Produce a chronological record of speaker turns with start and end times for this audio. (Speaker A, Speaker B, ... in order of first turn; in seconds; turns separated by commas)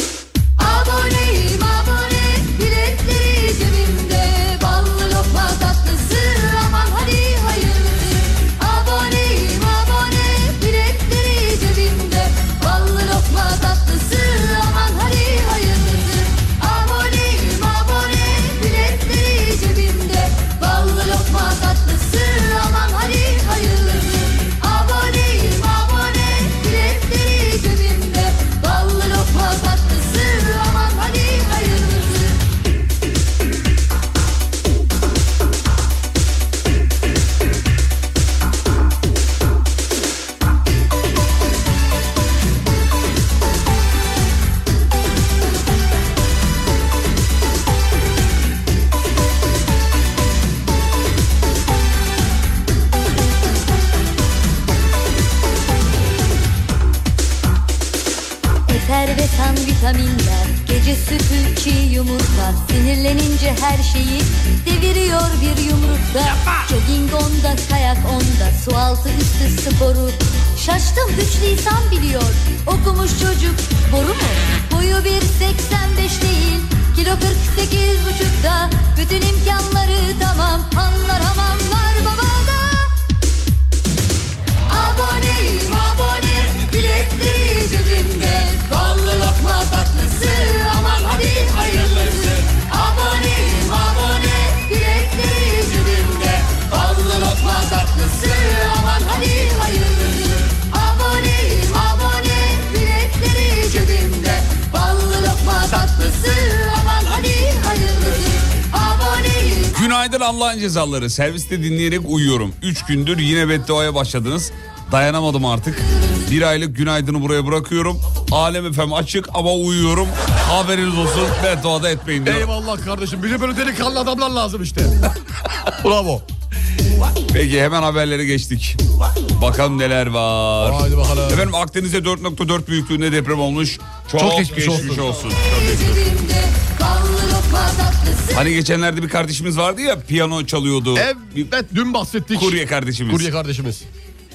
Speaker A: 0.6-32.4, Speaker A: 58.7-82.9, Speaker A: 84.7-109.8, Speaker B: 109.7-122.5, Speaker C: 122.2-125.0, Speaker C: 125.8-126.2, Speaker B: 127.3-128.8, Speaker B: 129.3-135.4, Speaker C: 130.6-131.5, Speaker C: 134.2-135.9, Speaker A: 135.4-138.4, Speaker B: 138.3-141.1, Speaker C: 140.9-143.9, Speaker B: 142.3-143.3